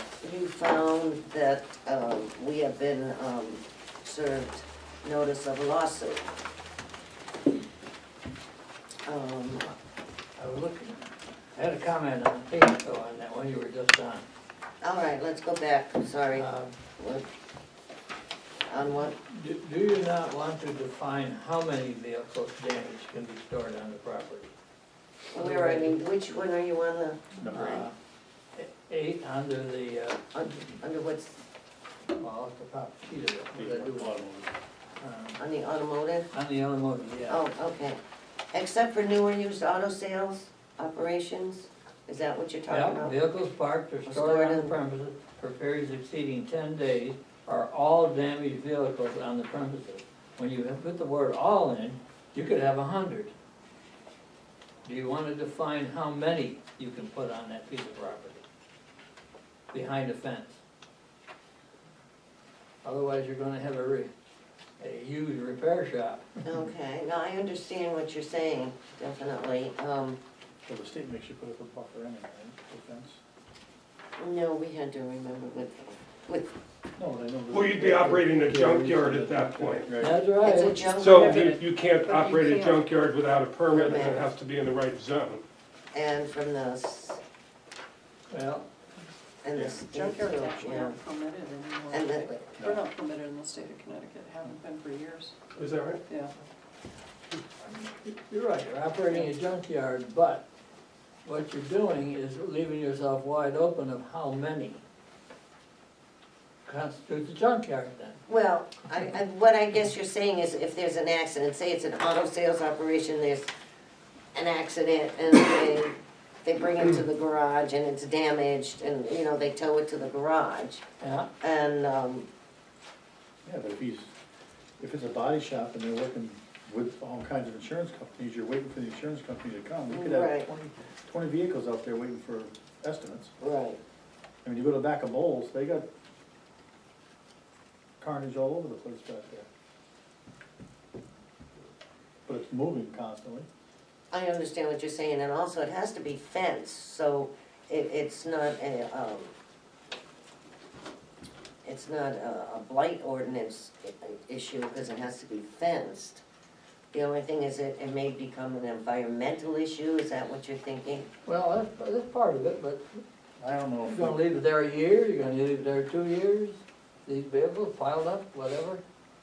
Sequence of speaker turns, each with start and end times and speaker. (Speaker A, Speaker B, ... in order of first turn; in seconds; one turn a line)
Speaker A: 0.2-6.3
Speaker A: 9.1-9.7
Speaker B: 10.4-14.3
Speaker A: 14.8-17.3
Speaker B: 16.3-16.8
Speaker A: 18.6-19.2
Speaker B: 19.3-24.5
Speaker A: 25.3-27.9
Speaker B: 25.4-26.0
Speaker C: 27.4-27.9
Speaker B: 27.5-27.9
Speaker B: 28.6-30.6
Speaker A: 30.3-31.4
Speaker B: 32.1-34.2
Speaker C: 33.5-34.5
Speaker B: 35.0-35.4
Speaker A: 35.4-36.3
Speaker B: 36.3-37.4
Speaker A: 37.3-38.0
Speaker A: 38.5-43.2
Speaker B: 42.7-53.3
Speaker A: 44.1-44.8
Speaker B: 54.9-58.4
Speaker B: 59.7-60.6
Speaker B: 62.8-64.1
Speaker B: 64.8-66.3
Speaker A: 66.5-70.2
Speaker C: 70.7-73.2
Speaker A: 74.2-76.5
Speaker C: 77.0-80.2
Speaker D: 77.5-79.9
Speaker B: 80.0-80.9
Speaker A: 80.4-81.4
Speaker D: 81.0-85.4
Speaker E: 81.0-82.9
Speaker A: 83.7-84.3
Speaker A: 85.9-87.2
Speaker B: 88.3-88.7
Speaker A: 89.4-91.0
Speaker C: 89.5-89.8
Speaker E: 89.9-95.4
Speaker A: 91.9-92.6
Speaker C: 92.6-92.9
Speaker D: 95.6-96.0
Speaker E: 96.1-96.3
Speaker B: 97.6-100.5
Speaker B: 101.2-104.8
Speaker B: 106.7-108.2
Speaker A: 108.3-113.5
Speaker A: 114.3-120.8
Speaker B: 121.0-121.3
Speaker A: 121.4-122.3
Speaker C: 123.4-124.1
Speaker C: 124.8-133.3
Speaker A: 129.9-130.5
Speaker A: 133.4-133.8
Speaker C: 134.4-135.9
Speaker C: 138.0-139.5
Speaker C: 142.3-143.5
Speaker A: 144.1-149.3
Speaker A: 151.6-156.2
Speaker A: 156.9-161.1
Speaker B: 161.3-163.0
Speaker C: 163.4-164.2
Speaker B: 163.8-168.8